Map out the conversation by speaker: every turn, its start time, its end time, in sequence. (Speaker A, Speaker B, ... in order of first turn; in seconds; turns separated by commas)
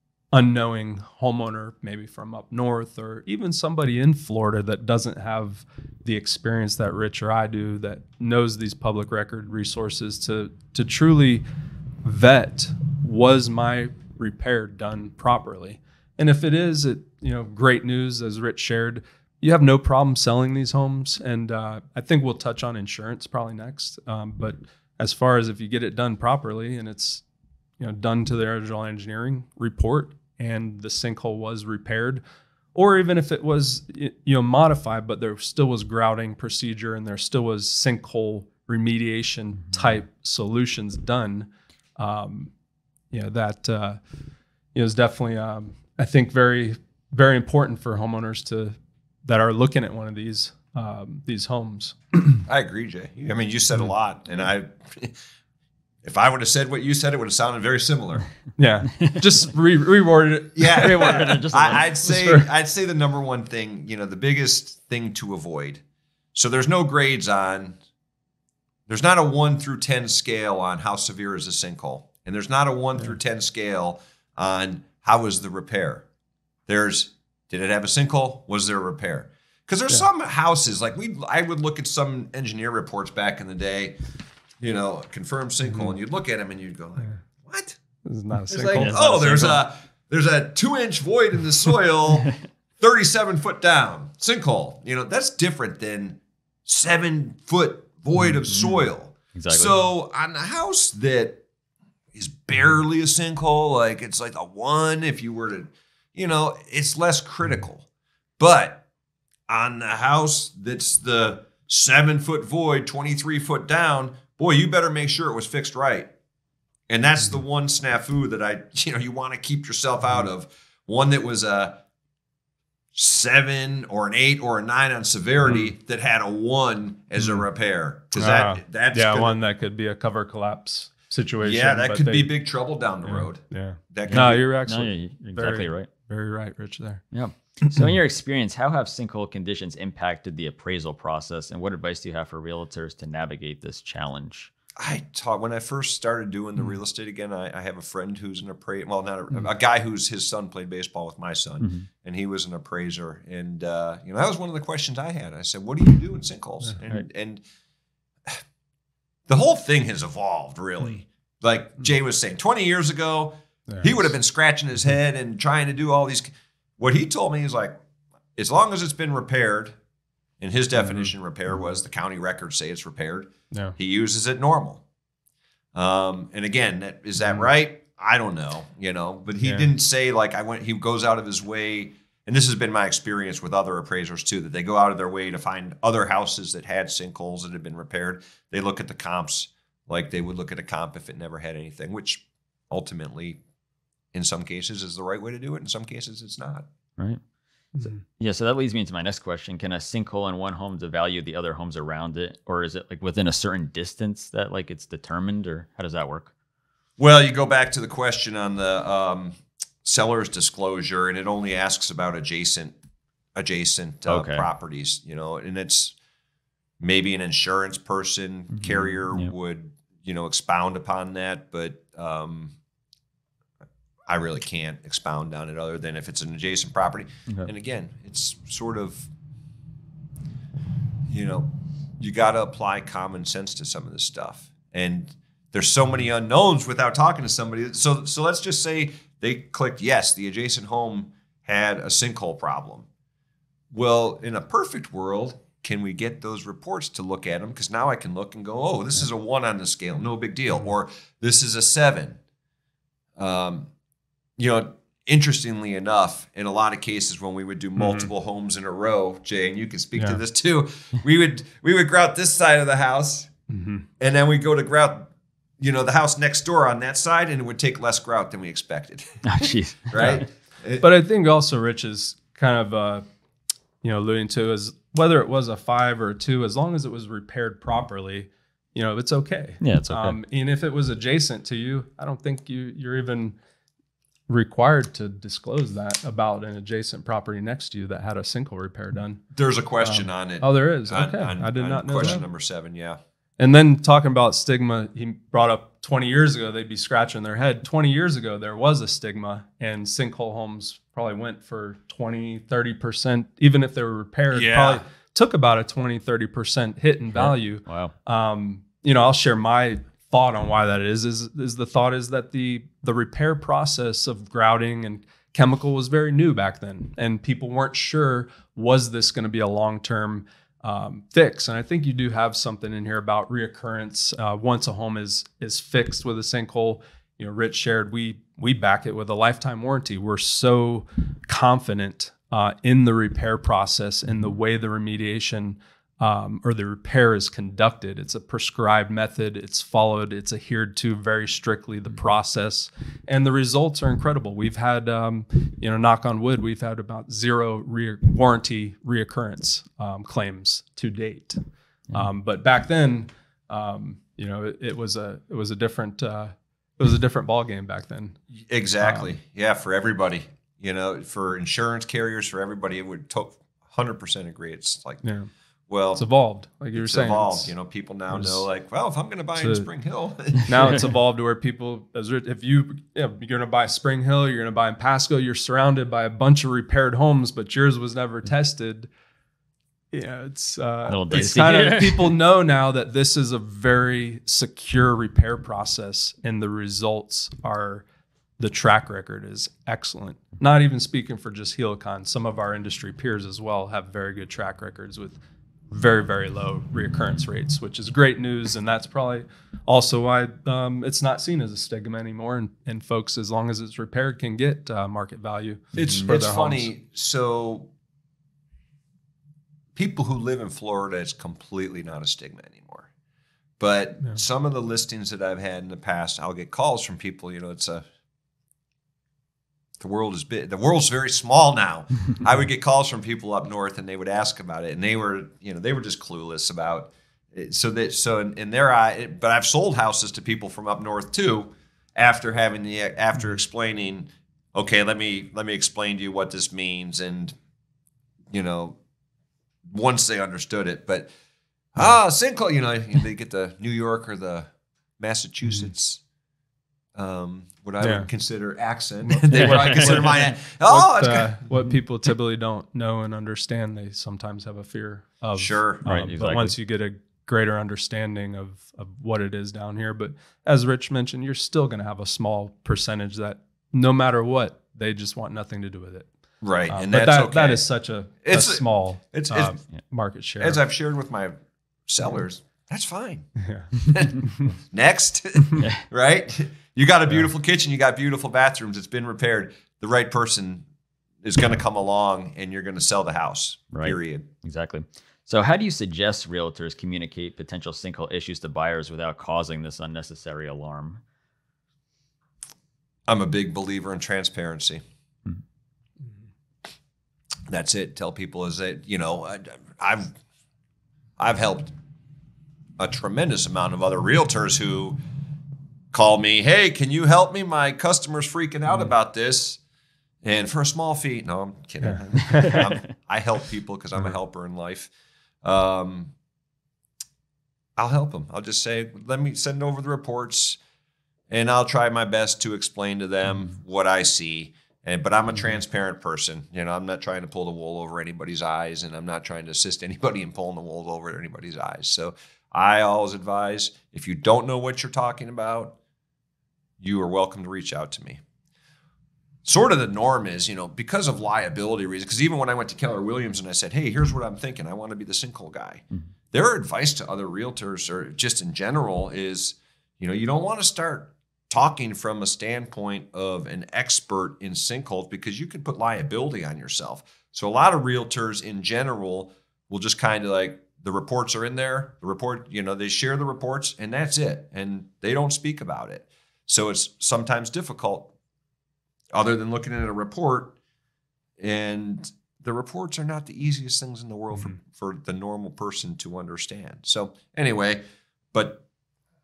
Speaker A: 0.3-11.4, Speaker A: 12.0-27.2, Speaker A: 27.8-32.2, Speaker A: 32.7-42.5, Speaker A: 43.1-44.0, Speaker A: 44.7-52.4, Speaker B: 52.5-55.2, Speaker B: 56.0-58.3, Speaker A: 58.6-61.3, Speaker B: 60.6-65.8, Speaker C: 60.7-62.1, Speaker A: 62.1-62.4, Speaker B: 66.3-67.8, Speaker B: 68.9-76.1, Speaker B: 76.7-84.0, Speaker B: 84.6-87.8, Speaker A: 88.0-89.0, Speaker B: 88.5-101.4, Speaker C: 88.7-89.6, Speaker C: 98.4-99.8, Speaker B: 102.1-107.9, Speaker B: 108.4-108.8, Speaker B: 109.5-116.1, Speaker B: 116.9-121.8, Speaker B: 122.9-129.4, Speaker A: 127.2-127.4, Speaker A: 128.2-132.3, Speaker B: 131.4-134.4, Speaker A: 133.1-137.0, Speaker C: 134.1-135.9, Speaker C: 137.1-144.5, Speaker A: 137.6-137.9, Speaker B: 144.8-157.4, Speaker C: 151.6-151.9, Speaker B: 159.3-167.7, Speaker A: 163.7-164.1, Speaker B: 168.4-169.8, Speaker B: 170.4-174.8, Speaker B: 175.7-193.4, Speaker B: 194.1-196.7, Speaker A: 197.8-198.0, Speaker C: 197.9-206.3, Speaker B: 207.0-212.8, Speaker B: 213.3-215.9, Speaker C: 214.1-214.4, Speaker B: 216.8-222.6, Speaker C: 218.6-219.3, Speaker B: 224.1-229.1, Speaker B: 231.1-242.9, Speaker B: 243.7-252.2, Speaker B: 253.2-253.7, Speaker B: 254.4-263.3, Speaker A: 257.8-258.1, Speaker A: 263.5-263.9, Speaker B: 264.0-270.9, Speaker C: 269.2-270.2, Speaker A: 270.0-270.2, Speaker A: 270.8-273.0, Speaker A: 273.8-283.4, Speaker C: 279.6-280.2, Speaker A: 284.3-289.2, Speaker B: 289.3-293.0, Speaker A: 289.8-292.2, Speaker A: 293.4-351.4, Speaker B: 304.3-304.8, Speaker C: 307.1-307.9, Speaker A: 351.9-358.2, Speaker B: 358.3-365.0, Speaker A: 358.8-359.1, Speaker A: 365.0-365.3, Speaker B: 365.7-366.1, Speaker A: 365.9-367.5, Speaker B: 366.7-370.8, Speaker A: 368.1-368.4, Speaker A: 369.4-369.7, Speaker A: 370.4-378.9, Speaker A: 379.9-387.9, Speaker C: 380.9-382.2, Speaker A: 388.4-395.2, Speaker A: 395.7-406.7, Speaker B: 405.7-407.7, Speaker C: 405.7-406.0, Speaker B: 409.7-412.9, Speaker B: 413.6-417.8, Speaker B: 419.8-437.4, Speaker B: 438.3-438.8, Speaker B: 439.7-441.1, Speaker B: 441.7-446.0, Speaker B: 446.9-451.4, Speaker A: 447.8-448.1, Speaker A: 449.1-450.1, Speaker C: 449.3-450.4, Speaker A: 450.7-466.1, Speaker B: 455.4-455.9, Speaker C: 455.9-456.6, Speaker B: 466.4-467.6, Speaker A: 466.7-470.6, Speaker B: 468.2-469.6, Speaker B: 470.4-471.4, Speaker B: 471.9-480.6, Speaker A: 473.4-473.7, Speaker A: 474.2-474.5, Speaker C: 475.6-475.9, Speaker B: 481.2-484.3, Speaker C: 483.7-491.0, Speaker B: 493.1-494.8, Speaker B: 497.5-500.1, Speaker B: 501.2-501.7, Speaker B: 502.8-505.0, Speaker B: 505.9-509.6, Speaker B: 510.2-514.9, Speaker A: 511.8-512.6, Speaker C: 512.4-512.8, Speaker B: 515.4-516.1, Speaker B: 517.8-520.6, Speaker B: 521.3-535.8, Speaker B: 536.8-538.2, Speaker B: 539.4-568.1, Speaker B: 569.1-570.6, Speaker B: 571.4-577.8, Speaker B: 578.3-578.6